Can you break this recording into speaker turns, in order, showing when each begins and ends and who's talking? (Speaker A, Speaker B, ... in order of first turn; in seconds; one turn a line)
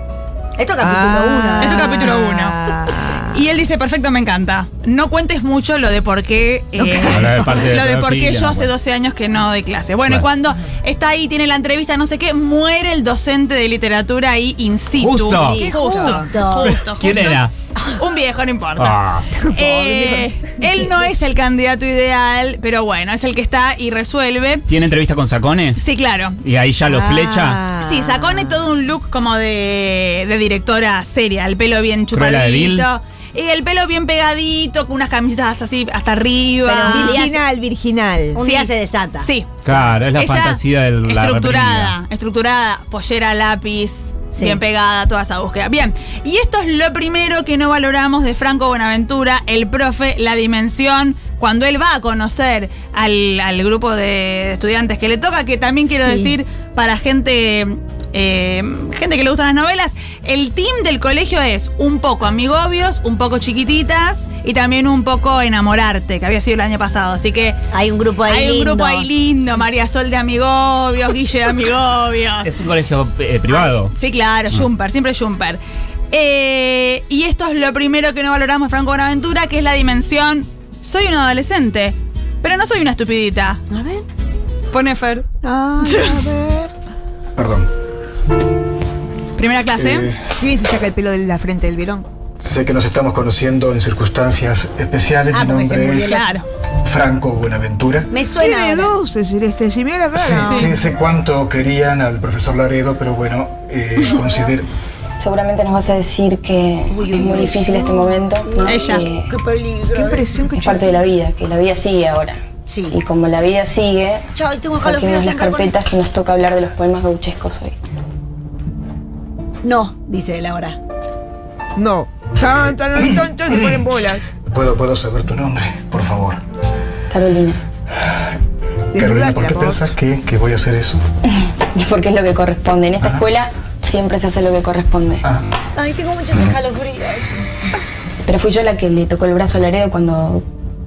Speaker A: 0.6-2.1
Speaker B: 0.8-3.4
Speaker C: 1.6-2.6
Speaker C: 3.3-24.7
Speaker B: 6.8-7.5
Speaker D: 7.0-8.7
Speaker D: 15.0-15.7
Speaker B: 15.2-16.4
Speaker A: 16.0-16.8
Speaker D: 16.6-17.5
Speaker D: 18.8-19.3
Speaker B: 19.4-20.3
Speaker D: 24.7-25.8
Speaker C: 25.8-26.4
Speaker D: 26.4-27.6
Speaker B: 26.9-28.7
Speaker C: 27.8-37.3
Speaker D: 32.1-32.9
Speaker B: 36.7-38.4
Speaker A: 36.7-37.4
Speaker A: 38.3-39.3
Speaker C: 38.4-38.7
Speaker C: 39.2-39.6
Speaker D: 39.6-41.9
Speaker C: 40.1-67.6
Speaker A: 44.3-44.6
Speaker A: 67.7-69.1
Speaker C: 68.3-72.5
Speaker D: 72.4-73.9
Speaker C: 73.9-75.6
Speaker C: 76.1-83.6
Speaker A: 83.7-84.0
Speaker C: 84.7-85.3
Speaker B: 85.4-86.7
Speaker C: 85.8-86.2
Speaker E: 87.4-87.7
Speaker C: 89.4-90.1
Speaker E: 89.8-90.2
Speaker B: 90.4-92.1
Speaker E: 92.4-96.2
Speaker A: 95.3-96.3
Speaker C: 96.0-96.5
Speaker E: 96.8-98.1
Speaker A: 98.1-98.9
Speaker B: 98.4-100.7
Speaker E: 100.1-104.7
Speaker C: 100.5-100.7
Speaker F: 105.2-109.3
Speaker A: 106.9-110.3
Speaker C: 108.7-109.1
Speaker B: 109.9-111.0
Speaker F: 110.5-112.4
Speaker A: 112.7-113.0
Speaker F: 112.9-117.8
Speaker A: 114.3-115.8
Speaker A: 119.6-120.8
Speaker B: 121.8-124.2
Speaker E: 124.5-126.4
Speaker F: 127.1-127.6
Speaker B: 128.9-129.8
Speaker E: 128.9-131.0
Speaker F: 131.7-135.2
Speaker E: 133.0-133.2
Speaker A: 135.8-137.4
Speaker F: 138.3-140.4